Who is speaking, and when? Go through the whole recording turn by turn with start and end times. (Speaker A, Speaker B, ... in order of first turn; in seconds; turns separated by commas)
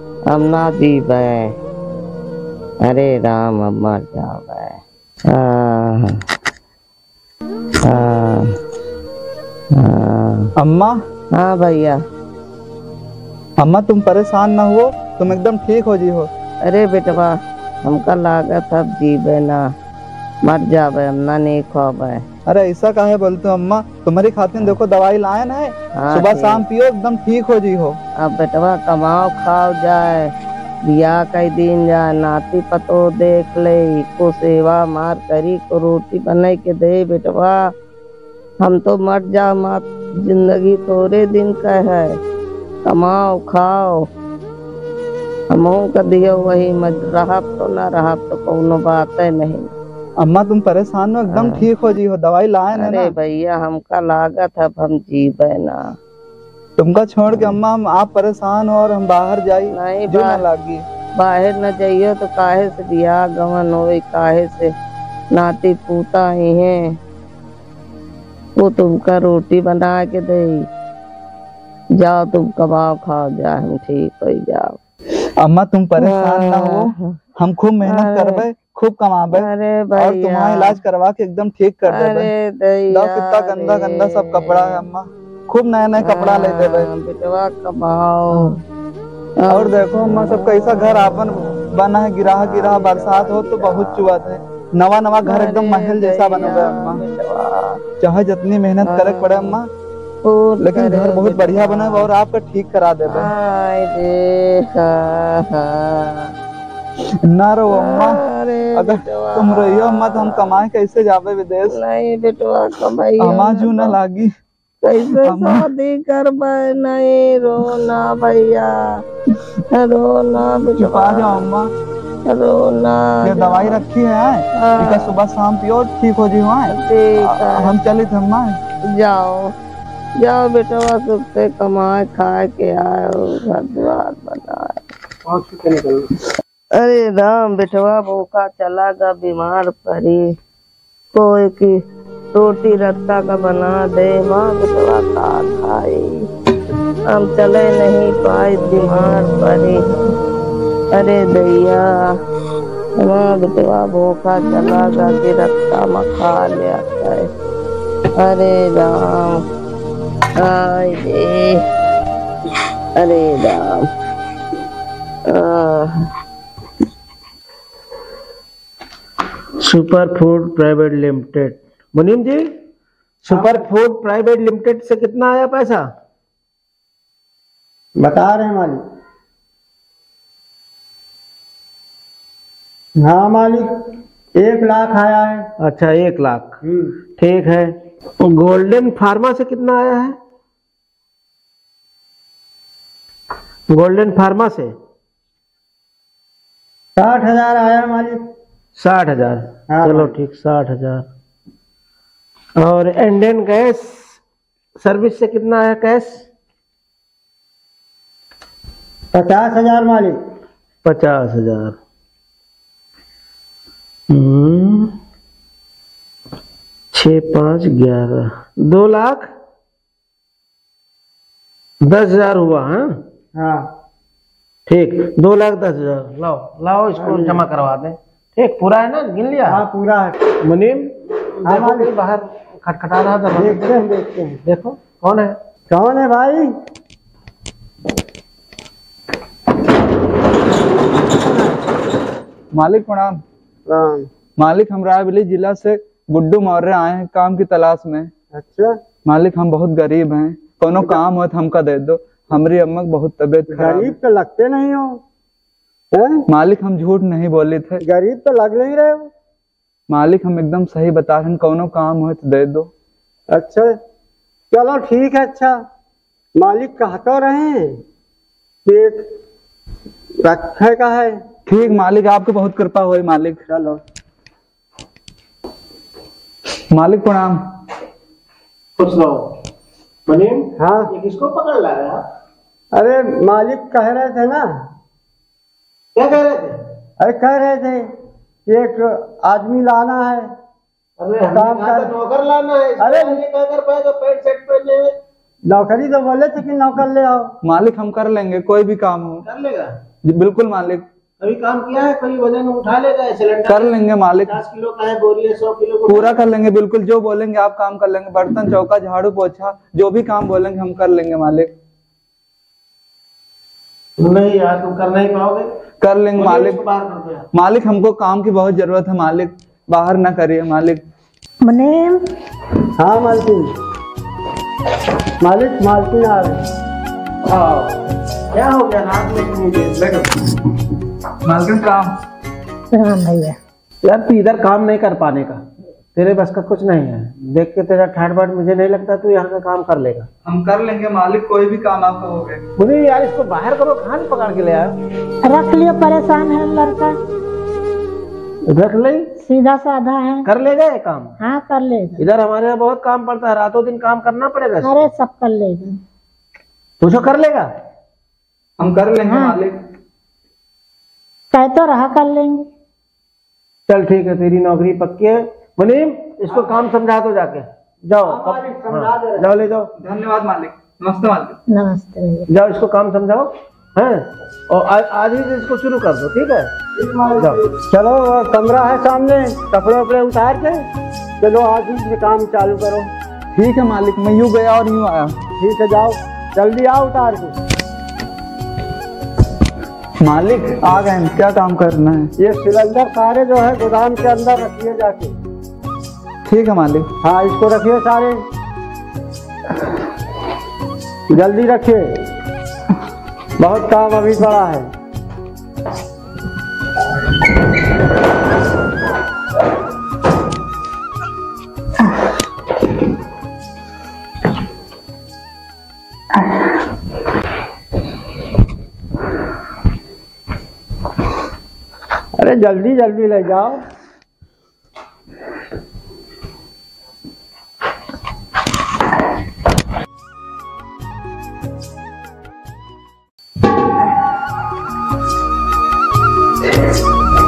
Speaker A: 0.3-1.5, Speaker A: 2.8-6.2, Speaker A: 7.8-8.6, Speaker A: 9.7-10.5, Speaker B: 10.6-11.0, Speaker A: 11.3-12.0, Speaker B: 13.6-16.3, Speaker A: 16.6-19.7, Speaker A: 20.4-22.2, Speaker B: 22.5-28.0, Speaker A: 26.0-26.6, Speaker A: 28.2-30.3, Speaker A: 30.9-37.7, Speaker A: 38.6-42.2, Speaker A: 42.9-44.1, Speaker A: 45.5-49.7, Speaker B: 50.2-53.1, Speaker A: 51.3-51.6, Speaker A: 52.7-55.9, Speaker B: 56.8-60.8, Speaker A: 59.7-60.4, Speaker A: 61.2-64.7, Speaker A: 65.3-67.0, Speaker A: 68.6-70.7, Speaker A: 72.0-74.8, Speaker B: 75.4-82.3, Speaker A: 76.0-77.2, Speaker A: 77.8-78.4, Speaker A: 79.3-80.8, Speaker A: 81.9-84.8, Speaker B: 82.9-86.9, Speaker A: 86.0-88.6, Speaker A: 89.5-91.2, Speaker B: 89.5-97.0, Speaker A: 92.3-94.2, Speaker A: 95.2-97.8, Speaker B: 98.0-99.7, Speaker A: 98.8-99.6, Speaker A: 100.2-102.1, Speaker B: 100.6-103.3, Speaker A: 103.0-106.3, Speaker B: 107.2-108.2, Speaker A: 107.7-110.6, Speaker B: 108.7-111.8, Speaker A: 111.7-114.0, Speaker B: 113.2-114.3, Speaker A: 114.8-119.0, Speaker B: 114.9-115.7, Speaker A: 119.7-121.5, Speaker B: 120.7-121.7, Speaker A: 122.2-123.8, Speaker B: 123.2-128.6, Speaker A: 124.5-125.1, Speaker A: 126.7-127.7, Speaker A: 128.9-129.5, Speaker A: 130.2-134.8, Speaker C: 135.3-136.0, Speaker A: 136.7-140.2, Speaker A: 141.1-141.8, Speaker A: 142.3-146.2, Speaker A: 147.1-149.8, Speaker A: 150.9-152.2, Speaker A: 153.0-157.3, Speaker A: 158.2-159.4, Speaker A: 160.4-161.6, Speaker A: 163.0-163.9, Speaker A: 165.3-166.1, Speaker C: 169.6-172.6, Speaker C: 173.2-175.8, Speaker D: 173.3-173.6, Speaker D: 178.0-178.8, Speaker D: 183.0-183.7, Speaker D: 184.4-185.5, Speaker C: 185.6-186.6, Speaker D: 186.6-186.9, Speaker C: 187.2-190.2, Speaker C: 193.7-194.7, Speaker D: 197.0-198.2, Speaker C: 198.8-201.1, Speaker D: 199.7-200.2, Speaker C: 202.6-204.2, Speaker C: 204.8-206.2, Speaker D: 209.1-210.2, Speaker C: 210.8-211.8, Speaker C: 214.1-214.9, Speaker C: 216.9-219.3, Speaker C: 221.8-223.0, Speaker D: 223.3-223.7, Speaker C: 224.7-229.6, Speaker D: 227.0-227.4, Speaker D: 229.4-230.2, Speaker C: 230.4-233.7, Speaker D: 231.4-231.9, Speaker D: 233.3-234.4, Speaker C: 234.4-235.4, Speaker D: 235.7-236.5, Speaker D: 241.1-241.6, Speaker B: 242.5-243.2, Speaker D: 243.7-244.1, Speaker B: 244.4-248.1, Speaker D: 248.3-248.8, Speaker B: 249.1-253.9, Speaker D: 253.5-255.0, Speaker D: 255.9-256.2, Speaker B: 256.3-257.8, Speaker D: 257.8-259.1, Speaker B: 259.9-262.7, Speaker D: 263.3-263.7, Speaker D: 264.5-265.6, Speaker D: 266.4-267.8, Speaker D: 268.6-269.1, Speaker D: 270.2-271.2, Speaker B: 271.5-273.4, Speaker D: 273.5-273.8, Speaker B: 276.7-277.4, Speaker C: 278.8-279.4, Speaker C: 280.1-282.0, Speaker D: 280.6-280.9, Speaker D: 282.7-284.6, Speaker C: 285.9-286.6, Speaker D: 287.0-287.9, Speaker D: 288.4-290.3, Speaker C: 291.0-294.9, Speaker D: 291.3-291.9, Speaker D: 292.8-293.2, Speaker D: 295.5-297.3, Speaker B: 297.4-299.2, Speaker C: 299.2-299.7, Speaker B: 300.0-300.8, Speaker C: 301.2-306.2, Speaker B: 303.5-304.4, Speaker B: 305.9-311.5, Speaker C: 314.0-315.5, Speaker B: 315.8-316.6, Speaker C: 316.1-317.3, Speaker B: 317.3-320.8, Speaker E: 321.4-322.0, Speaker D: 322.8-323.5, Speaker D: 325.2-326.5, Speaker C: 327.3-327.8, Speaker C: 328.3-330.1, Speaker B: 329.8-330.1, Speaker B: 331.2-331.9, Speaker E: 332.7-333.4, Speaker C: 333.8-335.4, Speaker C: 335.9-340.1, Speaker B: 340.2-342.4, Speaker C: 342.6-344.7, Speaker E: 345.2-346.9, Speaker C: 348.5-349.1, Speaker E: 349.2-350.3, Speaker C: 350.2-351.1, Speaker E: 351.2-352.0, Speaker C: 352.0-354.9, Speaker E: 354.6-355.8, Speaker C: 356.8-357.5, Speaker B: 358.6-359.6, Speaker E: 358.9-359.4, Speaker E: 361.3-362.4, Speaker C: 363.7-369.7, Speaker D: 368.0-369.4, Speaker B: 369.8-371.4, Speaker E: 371.5-372.3, Speaker C: 372.3-376.6, Speaker D: 376.8-380.6, Speaker D: 381.2-382.9, Speaker B: 383.3-385.1, Speaker D: 385.4-387.4, Speaker B: 390.0-392.1, Speaker D: 392.2-395.1, Speaker B: 396.3-396.9, Speaker D: 397.0-398.2, Speaker D: 401.1-401.9, Speaker D: 403.4-404.7, Speaker D: 422.1-423.6